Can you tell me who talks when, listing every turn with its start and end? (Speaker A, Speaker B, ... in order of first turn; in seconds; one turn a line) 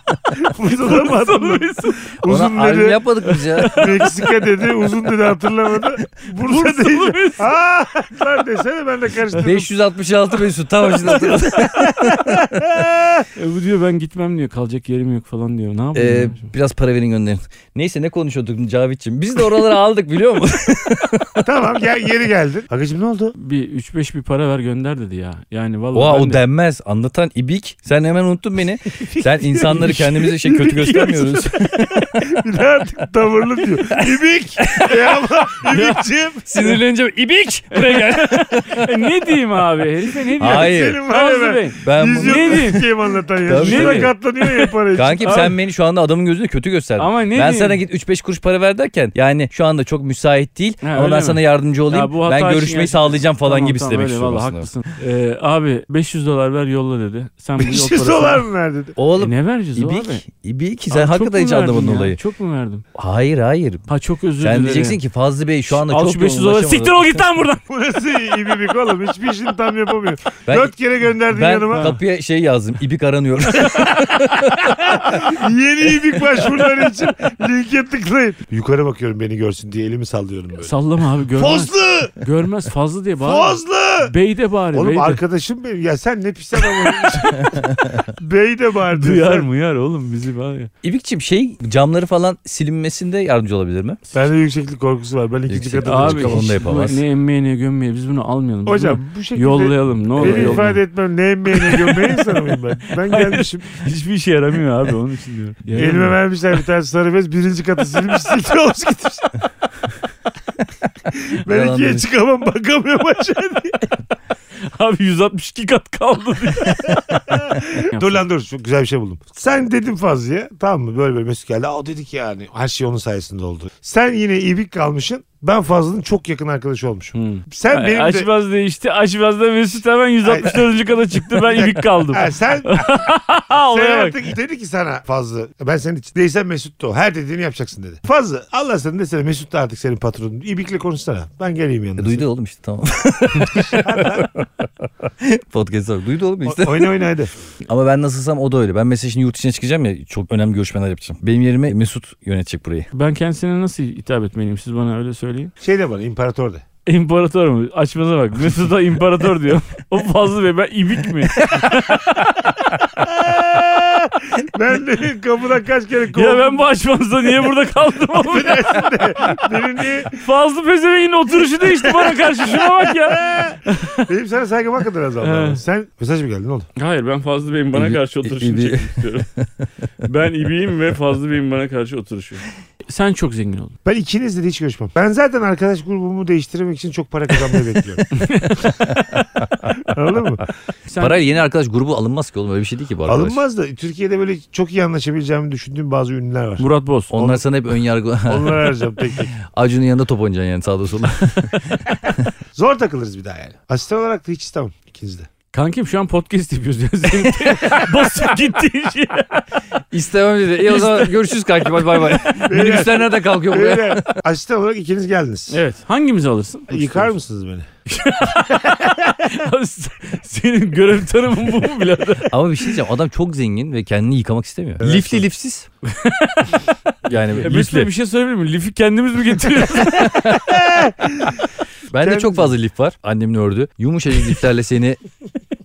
Speaker A: 0.4-3.0
Speaker B: 0.7-2.1
Speaker C: 2.2-3.9
Speaker B: 3.2-4.2
Speaker A: 3.7-9.7
Speaker B: 6.4-7.5
Speaker C: 9.4-12.6
Speaker A: 11.3-13.3
Speaker B: 13.3-16.5
Speaker C: 15.9-21.5
Speaker A: 21.4-23.4
Speaker B: 23.4-26.4
Speaker C: 25.9-32.4
Speaker B: 29.0-31.8
Speaker A: 32.2-36.8
Speaker C: 33.9-35.2
Speaker B: 35.7-36.0
Speaker C: 36.5-39.1
Speaker B: 37.7-42.9
Speaker C: 40.4-41.0
Speaker A: 40.4-45.5
Speaker C: 41.8-42.8
Speaker C: 43.4-44.2
Speaker B: 43.6-44.1
Speaker C: 44.9-54.7
Speaker B: 45.2-45.6
Speaker B: 47.0-47.8
Speaker B: 50.8-58.4
Speaker A: 57.6-59.0
Speaker C: 59.0-62.2
Speaker B: 59.2-60.2
Speaker B: 60.9-62.9
Speaker C: 62.9-63.9
Speaker B: 63.9-65.0
Speaker C: 64.4-67.2
Speaker B: 65.7-67.6
Speaker A: 67.7-71.9
Speaker C: 70.5-70.7
Speaker C: 71.3-75.2
Speaker A: 73.7-80.7
Speaker B: 80.6-85.2
Speaker A: 81.4-82.1
Speaker A: 83.2-84.1
Speaker A: 84.7-87.6
Speaker B: 87.0-87.5
Speaker C: 87.4-88.0
Speaker A: 88.1-89.5
Speaker B: 88.9-90.7
Speaker C: 90.8-94.0
Speaker A: 94.1-96.6
Speaker C: 95.5-97.0
Speaker B: 95.8-100.8
Speaker A: 98.7-103.7
Speaker C: 100.2-100.7
Speaker B: 101.5-102.3
Speaker B: 103.0-106.2
Speaker C: 105.7-106.1
Speaker A: 105.8-109.4
Speaker A: 111.1-114.0
Speaker C: 111.5-112.0
Speaker B: 114.6-117.0
Speaker A: 116.9-128.3
Speaker B: 117.9-118.2
Speaker B: 127.1-134.2
Speaker A: 130.2-130.7
Speaker A: 131.3-133.1
Speaker A: 133.6-142.3
Speaker C: 142.0-144.4
Speaker A: 143.8-144.3
Speaker C: 145.2-147.1
Speaker A: 146.4-147.3
Speaker C: 147.7-152.9
Speaker B: 152.9-155.5
Speaker A: 155.6-156.6
Speaker B: 156.9-162.3
Speaker C: 161.5-161.8
Speaker A: 162.8-166.6
Speaker B: 166.1-168.8
Speaker A: 168.2-170.2
Speaker B: 170.2-174.1
Speaker A: 171.8-176.7
Speaker B: 175.2-175.6
Speaker B: 176.8-179.3
Speaker C: 177.7-179.7
Speaker B: 180.0-183.8
Speaker A: 183.9-188.0
Speaker B: 188.1-188.7
Speaker C: 188.9-189.2
Speaker A: 189.7-190.4
Speaker B: 190.9-191.2
Speaker C: 191.0-193.4
Speaker A: 193.1-197.4
Speaker B: 196.6-197.1
Speaker C: 197.1-202.3
Speaker A: 198.3-199.3
Speaker A: 202.6-205.3
Speaker B: 205.5-209.5
Speaker C: 209.9-214.0
Speaker B: 210.7-211.1
Speaker A: 212.3-215.6
Speaker B: 215.5-217.1
Speaker A: 216.7-217.7
Speaker B: 217.9-222.4
Speaker C: 222.3-225.7
Speaker A: 224.8-225.2
Speaker B: 225.8-226.6
Speaker C: 227.1-227.9
Speaker B: 227.4-230.6
Speaker C: 230.0-230.6
Speaker A: 230.5-231.4
Speaker C: 231.9-235.0
Speaker A: 232.0-232.5